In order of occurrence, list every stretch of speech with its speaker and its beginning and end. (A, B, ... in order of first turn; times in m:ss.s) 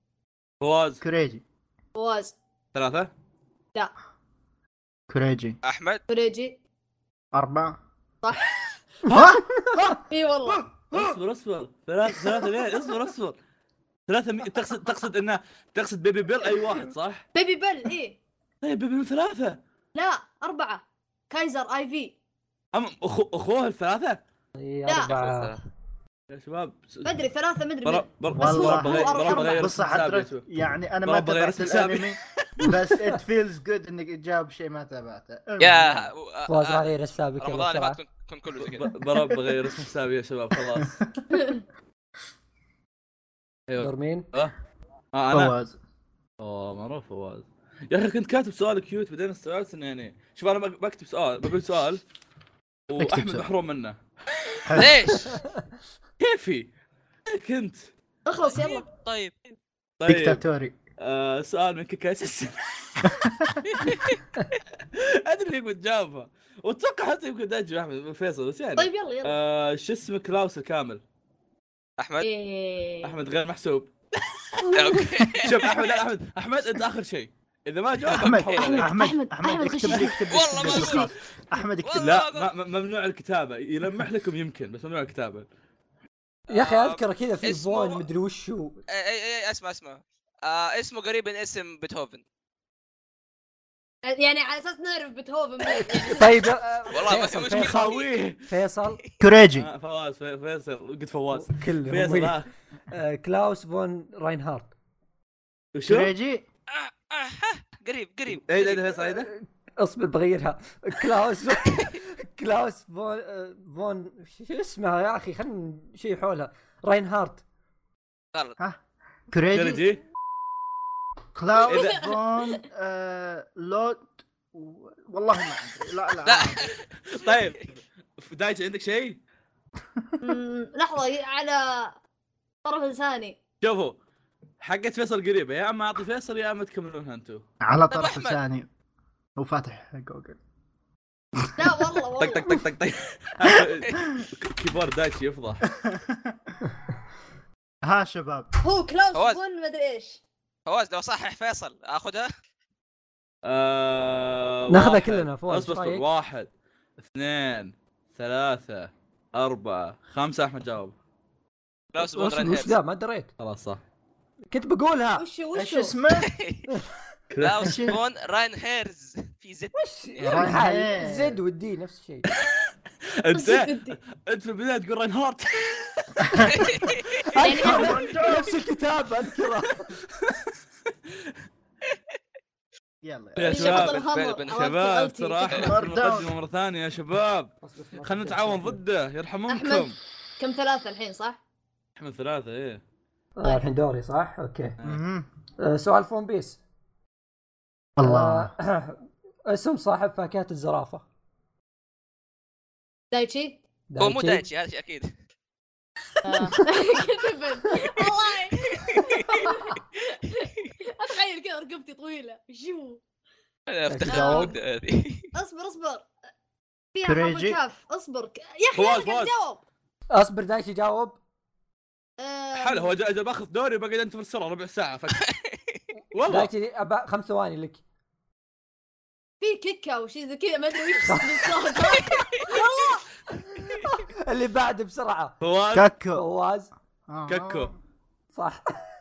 0:00.6-0:01.0 A
0:01.0-0:01.4 B
0:02.0-0:02.4 C
0:02.7-0:03.1 A
0:05.1-0:05.6 B
0:05.6-0:06.0 D
0:06.1-0:06.6 C
0:07.3-0:07.8 B
0:08.2-0:08.5 C
0:09.1-0:10.0 A
0:09.1-0:11.2 B
0:10.1-0:10.8 C
0:10.9-0:13.4 A
0:14.1-0:17.2 A
0:17.4-0:18.2 C
0:18.6-0:19.6 A
0:20.0-0:22.1 C
0:22.7-0:24.2 A
0:24.6-0:25.5 E
0:24.9-0:25.2 C
0:25.1-0:25.6 D
0:26.3-0:27.1 A
0:27.0-0:29.8 C
0:27.8-0:30.4 A
0:28.4-0:36.1 B
0:31.0-0:32.7 A
0:35.6-0:38.9 D
0:36.5-0:38.0 E
0:38.6-0:41.0 A
0:40.8-0:41.2 B
0:41.3-0:41.6 C
0:43.7-0:44.5 A
0:43.8-0:44.3 E
0:45.1-0:45.5 A
0:45.3-0:45.8 B
0:46.4-0:52.0 A
0:52.9-0:54.0 A
0:53.0-0:53.5 B
0:54.7-0:54.9 B
0:54.8-0:55.4 D
0:56.2-0:56.7 A
0:57.3-0:57.9 A
0:58.3-0:58.9 C
0:58.4-0:59.6 D
1:00.0-1:00.4 A
1:00.1-1:00.8 B
1:01.0-1:03.2 A
1:03.2-1:03.5 B
1:03.9-1:04.2 D
1:04.9-1:11.0 A
1:08.8-1:09.4 C
1:12.0-1:12.3 D
1:12.2-1:13.2 C
1:13.0-1:13.9 A
1:14.7-1:15.9 D
1:15.4-1:18.9 A
1:18.1-1:18.9 D
1:18.1-1:22.2 B
1:18.6-1:20.3 C
1:19.9-1:21.1 A
1:20.3-1:21.1 D
1:21.8-1:22.5 D
1:22.0-1:25.5 A
1:26.5-1:28.8 E
1:26.5-1:28.0 D
1:28.9-1:32.2 D
1:34.0-1:36.4 C
1:36.1-1:39.0 E
1:36.9-1:38.1 D
1:37.5-1:38.4 A
1:39.2-1:39.7 B
1:39.6-1:42.5 A
1:41.3-1:42.4 E
1:42.9-1:44.7 E
1:45.7-1:46.1 A
1:45.8-1:46.4 B
1:46.7-1:49.0 D
1:48.3-1:49.3 A
1:49.2-1:57.4 E
1:59.3-1:59.8 B
1:59.5-2:00.0 A
2:01.4-2:06.6 B
2:01.7-2:02.6 C
2:01.7-2:02.0 A
2:06.2-2:06.8 D
2:07.1-2:09.2 A
2:10.2-2:12.0 C
2:12.6-2:13.4 C
2:13.6-2:14.0 A
2:14.6-2:17.4 A
2:17.6-2:18.7 B
2:17.9-2:18.4 D
2:19.4-2:20.4 B
2:21.6-2:22.6 C
2:22.2-2:25.6 A
2:25.8-2:26.6 B
2:27.8-2:28.5 B
2:28.6-2:30.2 C
2:30.7-2:32.3 D
2:33.4-2:41.0 A
2:34.7-2:36.0 E
2:41.9-2:42.8 D
2:42.0-2:43.3 E
2:43.4-2:43.8 A
2:44.5-2:45.2 E
2:45.2-2:46.0 C
2:45.5-2:46.3 B
2:46.2-2:46.7 D
2:47.3-2:48.0 A
2:47.4-2:50.5 D
2:47.6-2:48.0 B
2:49.8-2:52.3 E
2:50.2-2:51.4 B
2:52.3-2:52.6 A
2:53.2-2:56.3 A
2:53.3-2:54.0 C
2:56.5-2:57.2 D
2:57.4-2:59.9 E
2:57.4-2:58.1 C
2:57.4-2:58.6 B
3:03.0-3:03.5 B
3:03.4-3:10.0 A
3:03.4-3:05.8 C
3:03.5-3:04.6 D
3:05.6-3:06.3 B
3:07.6-3:08.8 E
3:09.5-3:11.4 C
3:12.0-3:12.8 A
3:13.4-3:14.8 E
3:14.8-3:15.3 B
3:15.6-3:16.6 E
3:18.0-3:18.5 B
3:18.0-3:21.0 E
3:23.1-3:23.6 C
3:23.9-3:24.4 E
3:24.0-3:25.1 D
3:26.2-3:33.0 C
3:28.6-3:29.5 D
3:33.7-3:35.3 D
3:33.9-3:34.5 E
3:34.1-3:34.6 C
3:35.3-3:36.1 C
3:36.9-3:39.6 C
3:37.0-3:37.6 B
3:38.8-3:39.3 A
3:40.1-3:41.2 E
3:42.2-3:42.9 C
3:42.6-3:45.2 A
3:45.2-3:45.8 D
3:46.1-3:46.5 A
3:46.3-3:47.8 E
3:49.4-3:53.1 C
3:51.0-3:51.4 E
3:53.4-3:55.4 E
3:55.4-3:55.9 A
3:55.7-3:56.3 B
3:56.2-3:56.7 E
3:57.1-3:57.8 B
3:57.3-3:57.7 A
3:58.3-3:58.8 E